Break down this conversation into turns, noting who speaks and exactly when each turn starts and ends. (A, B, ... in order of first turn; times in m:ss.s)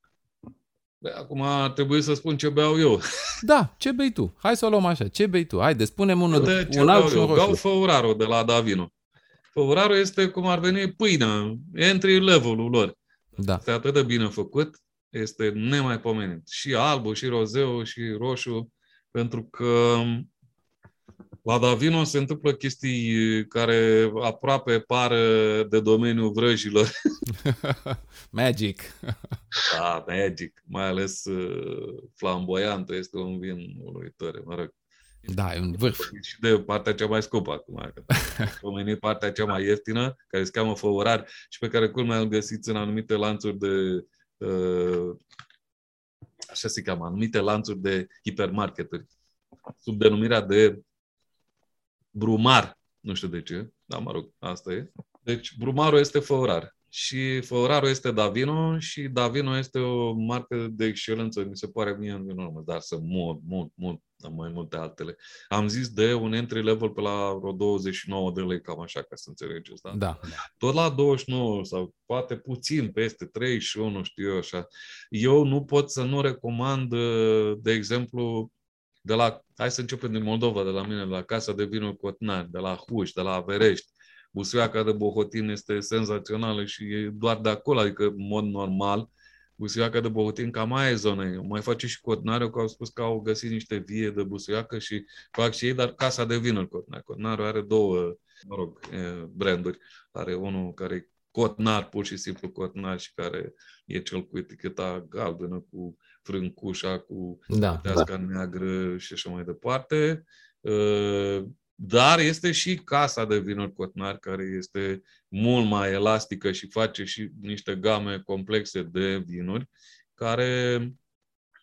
0:01.0-0:03.0 A
0:03.4-0:07.6 B
0:06.3-0:08.9 A
0:09.5-0:13.0 A
0:13.6-0:20.3 A
0:21.4-0:26.9 A
0:27.3-0:29.4 B
0:29.7-0:34.7 A
0:35.3-0:36.1 B
0:36.0-0:45.2 A
0:46.5-0:49.1 A
0:49.8-0:50.8 A
0:52.1-1:18.5 A
1:09.9-1:10.4 B
1:19.0-2:01.0 A
1:47.5-1:48.1 B